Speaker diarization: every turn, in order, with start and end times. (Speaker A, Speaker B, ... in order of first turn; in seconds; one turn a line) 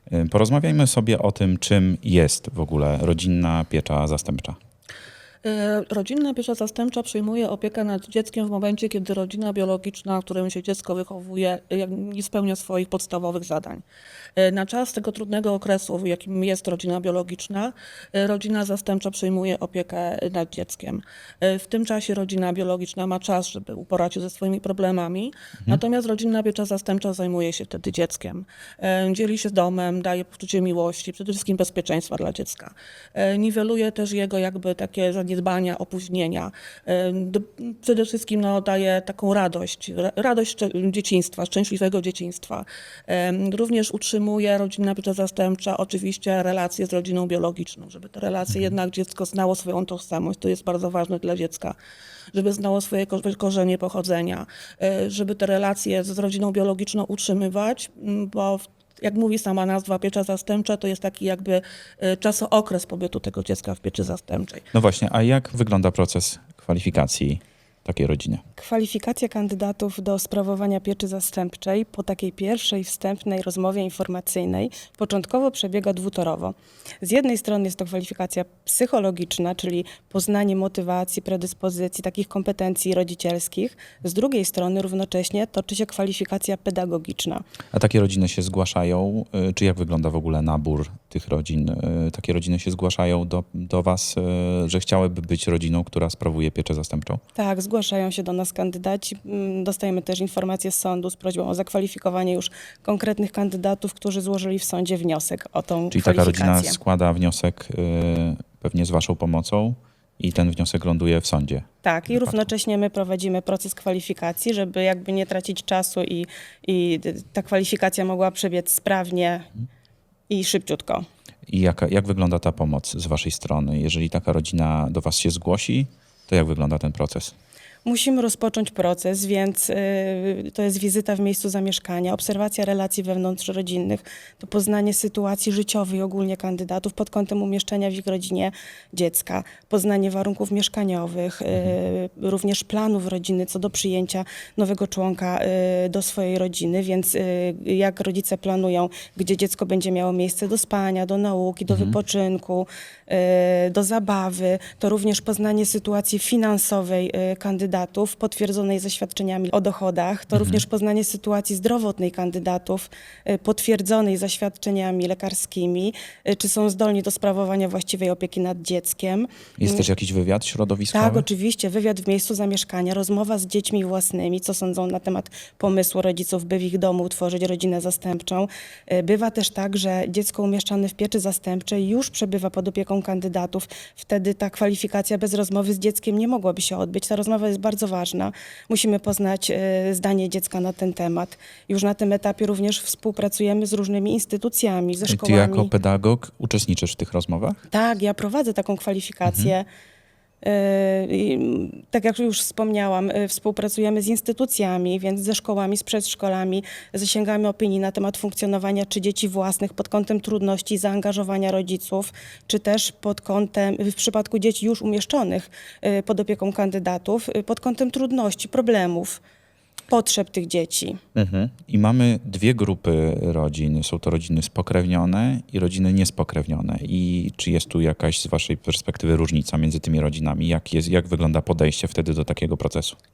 Speaker A: 0.1-4.6
Speaker B: 5.4-13.8
Speaker B: 14.4-51.8
Speaker B: 52.3-64.6
Speaker A: 64.7-68.4
Speaker C: 68.6-87.4
Speaker A: 87.7-97.2
Speaker C: 97.4-106.8
Speaker A: 105.9-112.5
Speaker C: 111.8-119.5
Speaker C: 120.3-121.1
Speaker A: 121.5-127.3
Speaker C: 127.8-169.9
Speaker A: 151.7-152.0
Speaker A: 160.3-160.7
Speaker A: 169.6-171.3
Speaker C: 170.9-195.7
Speaker A: 195.1-197.6
Speaker C: 197.7-199.7
Speaker A: 199.3-199.6
Speaker C: 200.4-219.2
Speaker C: 219.9-221.0
Speaker A: 221.2-233.0